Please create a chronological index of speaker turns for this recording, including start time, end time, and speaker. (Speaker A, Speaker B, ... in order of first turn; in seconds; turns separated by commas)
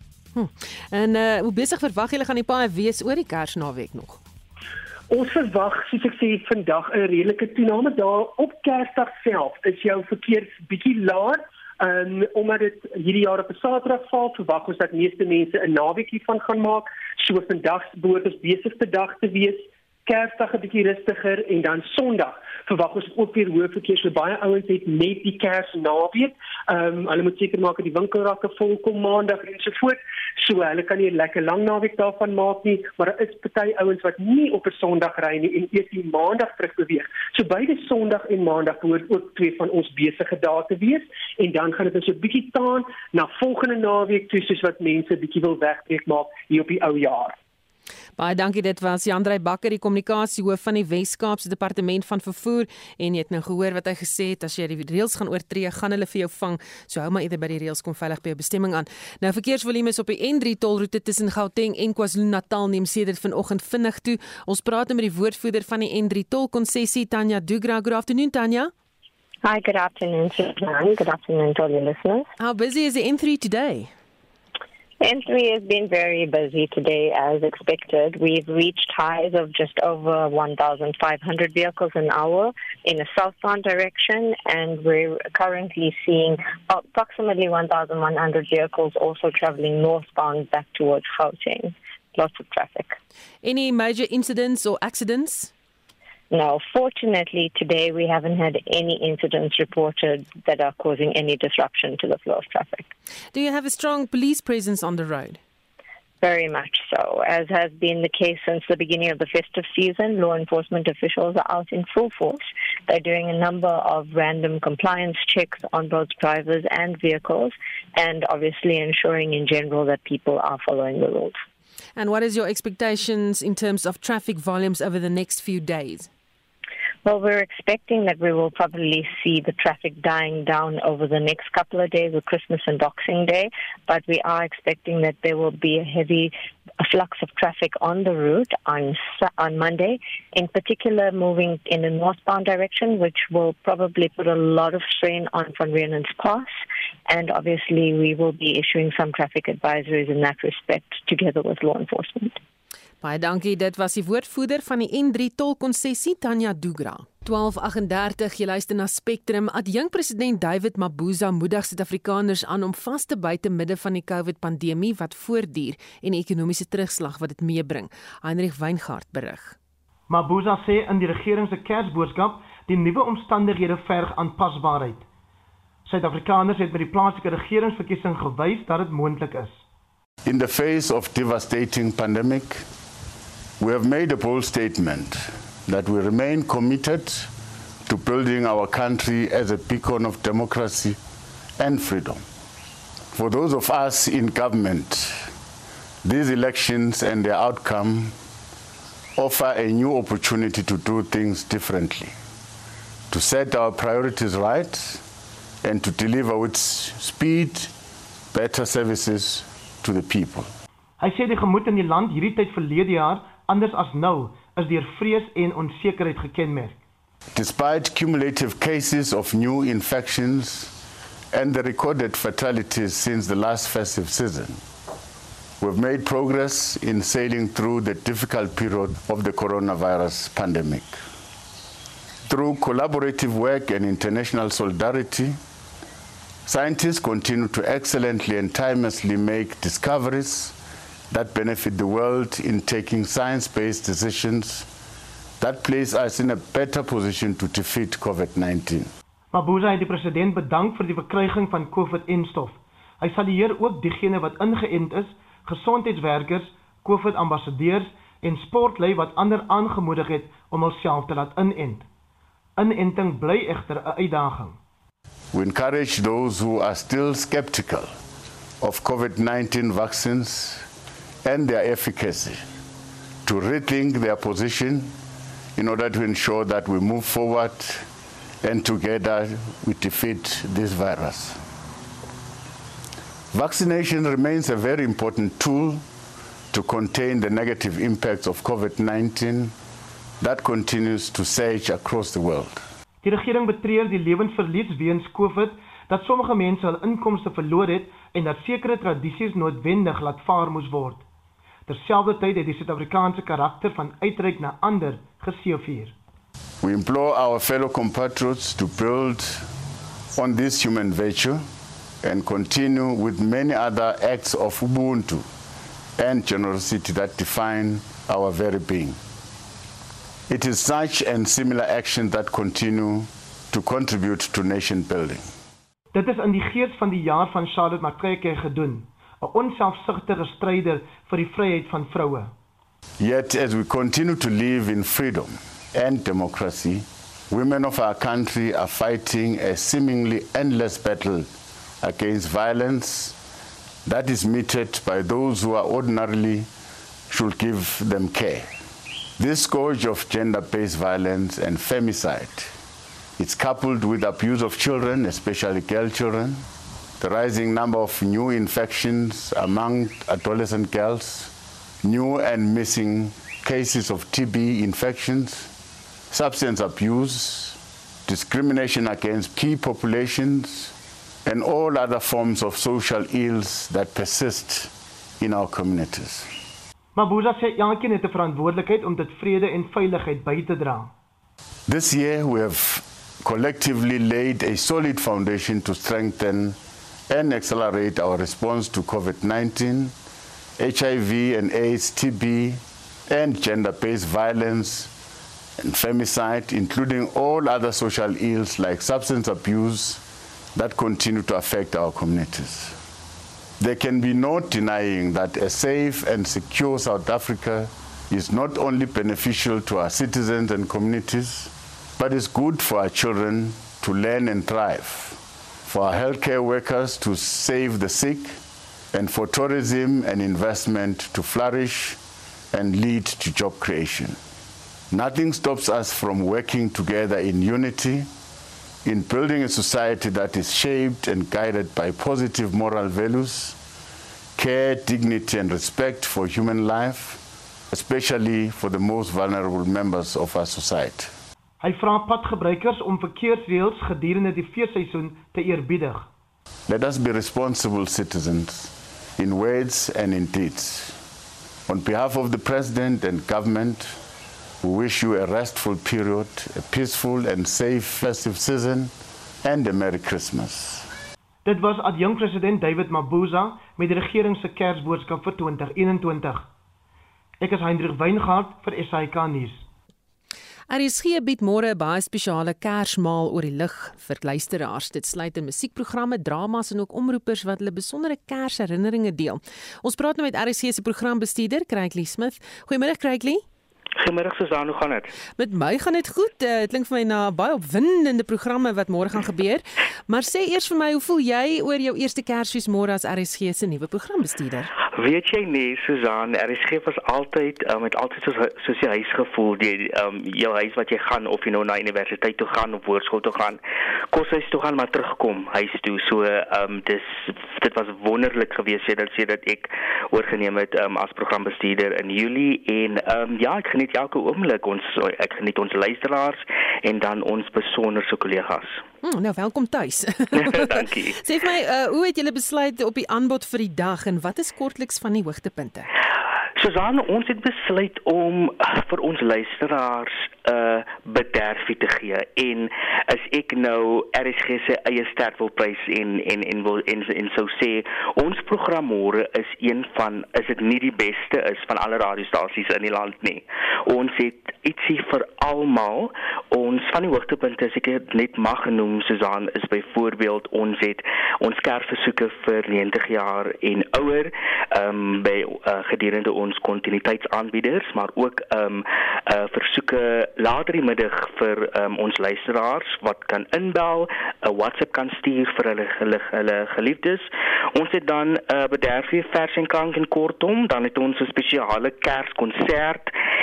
Speaker A: 0.4-4.2, Speaker B: 5.1-47.4, Speaker A: 48.2-68.7, Speaker C: 69.4-72.3, Speaker A: 72.4-73.9, Speaker C: 75.0-93.0, Speaker A: 93.4-95.5, Speaker C: 96.3-102.9, Speaker A: 103.3-105.4, Speaker C: 106.2-121.4, Speaker A: 122.0-126.1, Speaker C: 127.0-146.6, Speaker C: 147.1-152.4, Speaker A: 153.0-169.6, Speaker D: 170.1-175.1, Speaker D: 175.9-179.6, Speaker E: 180.2-182.6, Speaker E: 183.6-187.3, Speaker E: 187.9-191.0, Speaker E: 191.6-192.2, Speaker E: 193.1-195.3, Speaker E: 196.0-198.1, Speaker E: 199.2-202.1, Speaker E: 203.1-205.0, Speaker E: 205.6-207.7, Speaker E: 208.3-210.5, Speaker D: 211.0-216.8, Speaker E: 217.3-220.7, Speaker E: 221.3-224.6, Speaker E: 225.6-230.9, Speaker E: 232.3-235.4, Speaker E: 236.5-240.6, Speaker E: 241.1-244.7, Speaker E: 245.4-248.9, Speaker D: 249.3-261.9, Speaker D: 262.6-264.6, Speaker E: 265.3-267.9, Speaker E: 268.6-270.6, Speaker E: 271.2-272.4, Speaker E: 273.3-274.9, Speaker E: 275.6-277.9, Speaker E: 278.4-281.4, Speaker E: 283.3-285.8, Speaker E: 286.5-289.5, Speaker E: 290.2-292.6, Speaker D: 293.0-301.0, Speaker D: 301.7-305.9, Speaker E: 306.6-309.4, Speaker E: 310.1-311.4, Speaker E: 312.0-315.2, Speaker E: 316.0-319.0, Speaker E: 320.3-325.3, Speaker D: 325.9-332.3, Speaker E: 333.0-341.3, Speaker E: 341.8-343.2, Speaker E: 343.9-346.5, Speaker E: 347.1-348.5, Speaker E: 349.2-352.5, Speaker E: 353.2-356.4, Speaker E: 357.0-361.3, Speaker E: 361.8-365.5, Speaker E: 366.1-370.7, Speaker E: 371.3-376.3, Speaker D: 376.9-380.9, Speaker E: 381.7-386.6, Speaker E: 387.1-389.9, Speaker E: 390.6-394.9, Speaker E: 395.6-400.0, Speaker E: 400.6-402.8, Speaker E: 403.6-418.4, Speaker E: 418.9-422.0, Speaker E: 422.5-424.2, Speaker E: 424.9-428.1, Speaker E: 428.9-433.6, Speaker E: 434.4-437.2, Speaker E: 437.7-441.1, Speaker D: 441.6-446.1, Speaker E: 446.7-450.9, Speaker E: 451.7-454.0, Speaker E: 454.6-458.9, Speaker E: 459.4-460.9, Speaker D: 461.4-466.5, Speaker D: 467.4-469.6, Speaker A: 470.7-483.4, Speaker F: 484.0-485.1, Speaker A: 485.4-494.7, Speaker F: 495.0-518.8, Speaker A: 519.0-525.9, Speaker F: 520.3-521.2, Speaker F: 526.6-573.1